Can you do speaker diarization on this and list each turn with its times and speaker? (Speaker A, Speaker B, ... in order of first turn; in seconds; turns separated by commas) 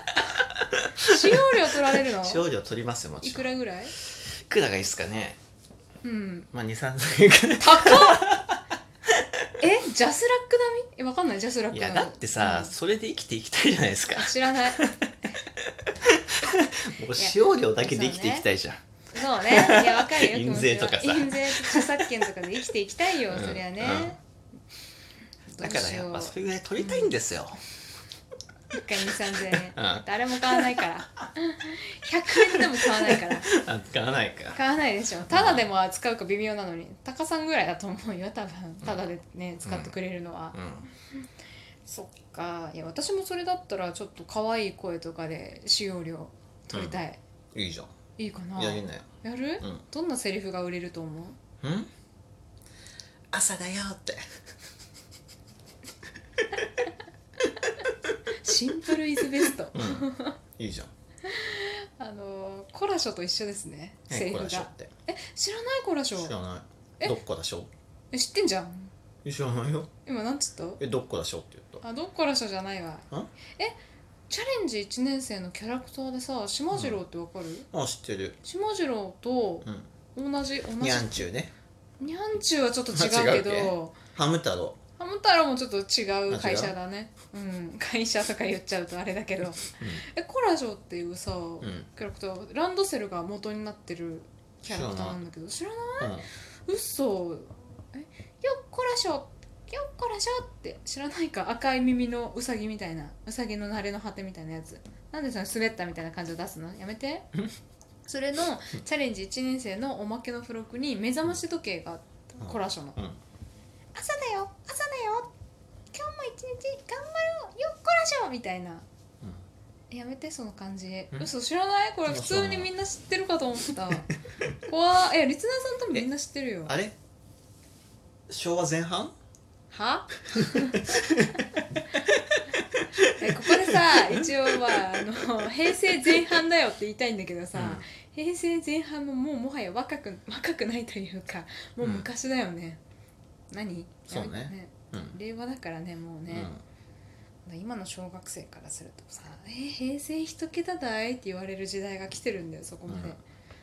Speaker A: 0.4-1.3, Speaker B: 1.0-2.4, Speaker A: 1.9-5.4, Speaker B: 3.2-3.9, Speaker B: 6.0-6.5, Speaker A: 6.5-8.6, Speaker B: 7.6-8.4, Speaker B: 9.6-12.7, Speaker A: 11.7-15.0, Speaker B: 14.2-14.9, Speaker A: 15.6-18.8, Speaker B: 17.2-18.5, Speaker B: 19.1-24.2, Speaker A: 19.4-22.1, Speaker A: 23.3-24.2, Speaker A: 25.5-27.6, Speaker B: 25.6-27.1, Speaker B: 28.7-33.5, Speaker A: 29.5-30.8, Speaker A: 32.5-34.6, Speaker B: 34.5-40.6, Speaker A: 35.3-35.7, Speaker A: 39.6-39.9, Speaker A: 40.5-40.9, Speaker B: 41.9-47.2, Speaker A: 46.7-47.0, Speaker A: 47.5-47.9, Speaker B: 48.2-51.4, Speaker A: 48.5-49.1, Speaker A: 51.6-51.9, Speaker A: 53.3-54.2, Speaker B: 58.4-60.4, Speaker A: 59.7-60.9, Speaker B: 61.2-66.3, Speaker A: 64.1-64.9, Speaker A: 66.2-67.7, Speaker B: 68.1-68.9, Speaker A: 69.2-69.9, Speaker B: 70.1-70.8, Speaker A: 70.8-71.8, Speaker B: 71.8-73.8, Speaker B: 74.3-77.7, Speaker A: 76.7-77.0, Speaker A: 77.7-78.4, Speaker B: 78.4-81.3, Speaker A: 80.8-81.5, Speaker B: 82.0-84.0, Speaker A: 82.9-84.8, Speaker B: 85.0-107.3, Speaker A: 86.3-86.8, Speaker A: 91.6-91.9, Speaker A: 94.7-95.2, Speaker A: 96.0-96.3, Speaker B: 108.1-113.0, Speaker A: 112.4-113.2, Speaker B: 114.0-115.3, Speaker B: 115.9-118.8, Speaker B: 119.9-124.1, Speaker A: 122.1-122.7, Speaker B: 124.6-126.7, Speaker A: 126.7-127.0, Speaker A: 128.3-129.1, Speaker B: 129.7-130.9, Speaker A: 130.4-131.5, Speaker A: 132.1-132.4, Speaker A: 133.0-133.6, Speaker B: 133.2-142.8, Speaker A: 137.6-137.8, Speaker A: 141.8-142.1, Speaker B: 143.5-146.5, Speaker A: 144.1-145.2, Speaker A: 146.3-146.6, Speaker B: 147.5-153.2, Speaker A: 152.9-153.2